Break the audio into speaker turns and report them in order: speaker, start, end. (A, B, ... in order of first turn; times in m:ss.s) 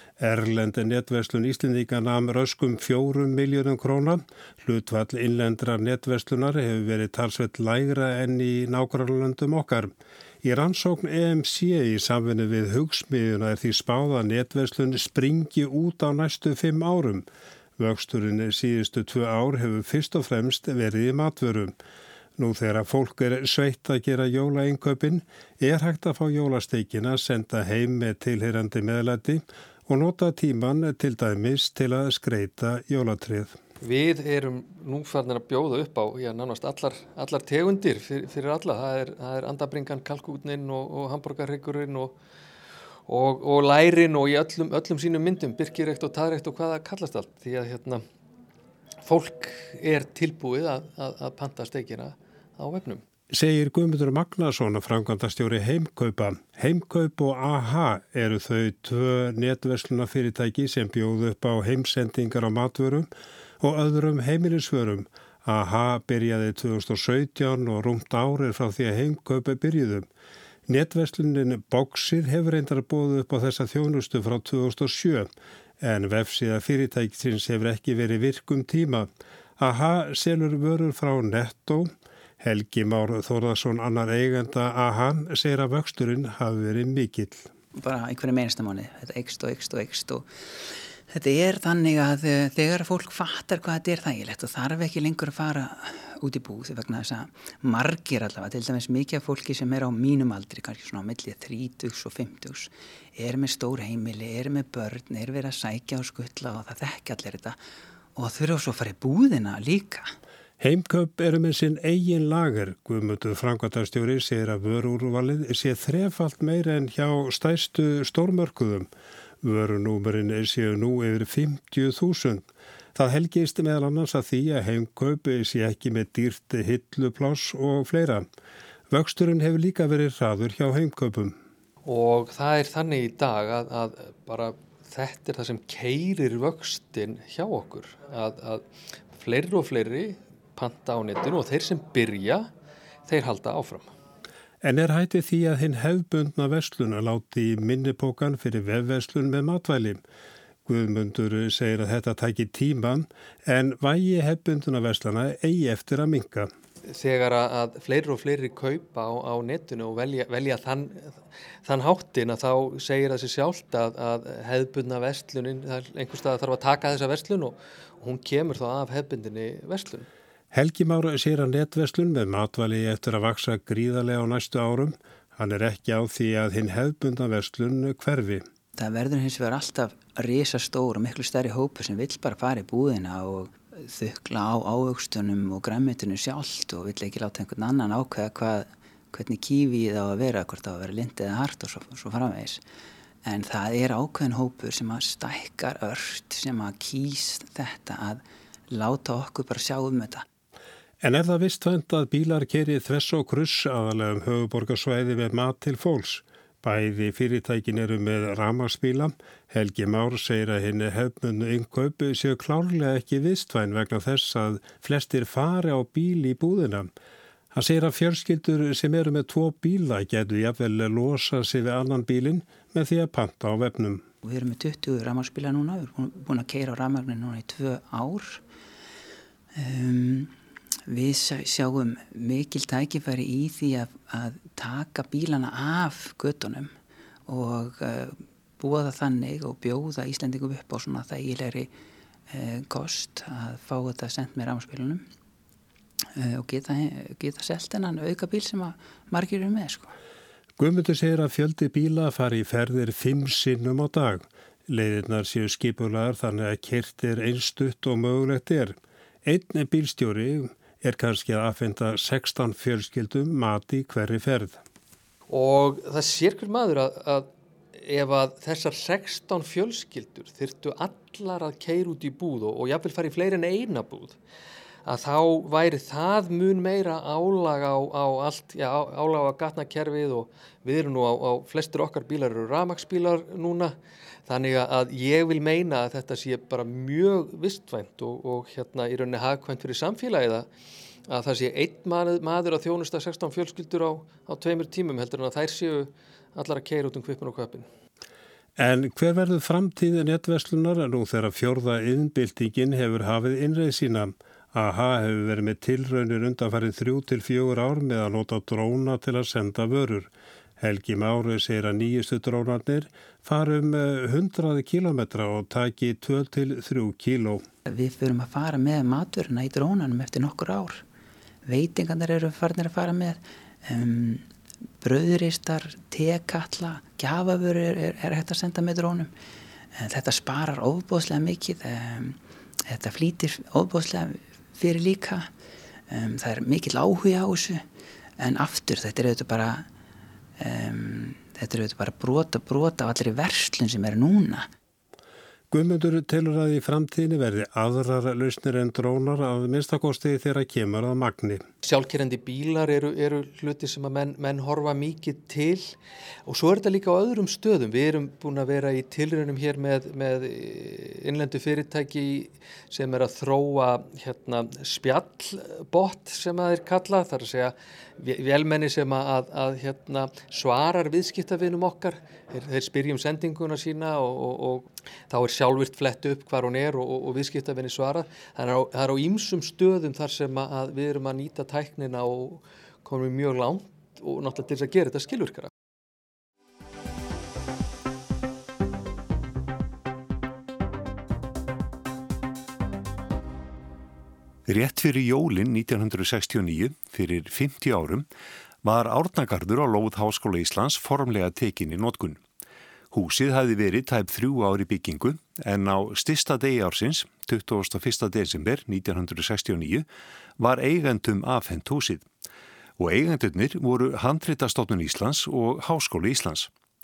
0:00.2-0:17.3 A
0:17.8-0:21.7 A
0:22.4-0:33.6 A
0:33.8-0:42.2 B
0:43.1-0:48.0 B
0:49.0-0:53.0 B
0:53.3-1:10.1 A
1:10.7-1:15.3 A
1:15.8-1:19.1 A
1:19.6-1:27.5 A
1:27.7-1:47.6 C
1:48.2-1:50.2 C
1:50.6-1:58.9 A
1:59.4-2:08.3 A
2:08.9-2:11.4 A
2:11.8-2:22.5 B
2:23.0-2:23.9 B
2:24.6-2:30.0 A
2:30.7-2:36.5 A
2:36.9-2:50.1 B
2:50.5-2:58.5 A
2:58.8-3:12.6 C
3:13.2-3:20.3 C
3:21.0-3:36.9 A
3:37.5-3:44.0 A
3:44.2-3:48.4 C
3:49.5-3:50.3 C
3:50.9-3:56.7 C
3:57.3-4:01.7 C
4:02.3-4:05.1 C
4:06.1-4:10.0 C
4:10.6-4:24.6 A
4:25.3-4:34.2 B
4:34.9-4:50.5 B
4:51.1-4:57.7 B
4:58.6-5:17.4 A
5:17.7-5:20.8 C
5:21.5-5:24.3 C
5:24.8-5:29.1 C
5:29.8-5:35.3 C
5:35.9-5:37.7 C
5:38.2-5:39.7 C
5:40.4-5:44.5 C
5:45.5-5:51.4 A
5:51.6-5:55.7 B
5:56.3-6:25.5 B
6:34.5-6:38.1 D
6:38.6-6:42.2 D
6:42.9-6:49.9 D
6:50.4-6:52.1 D
6:52.8-6:56.5 D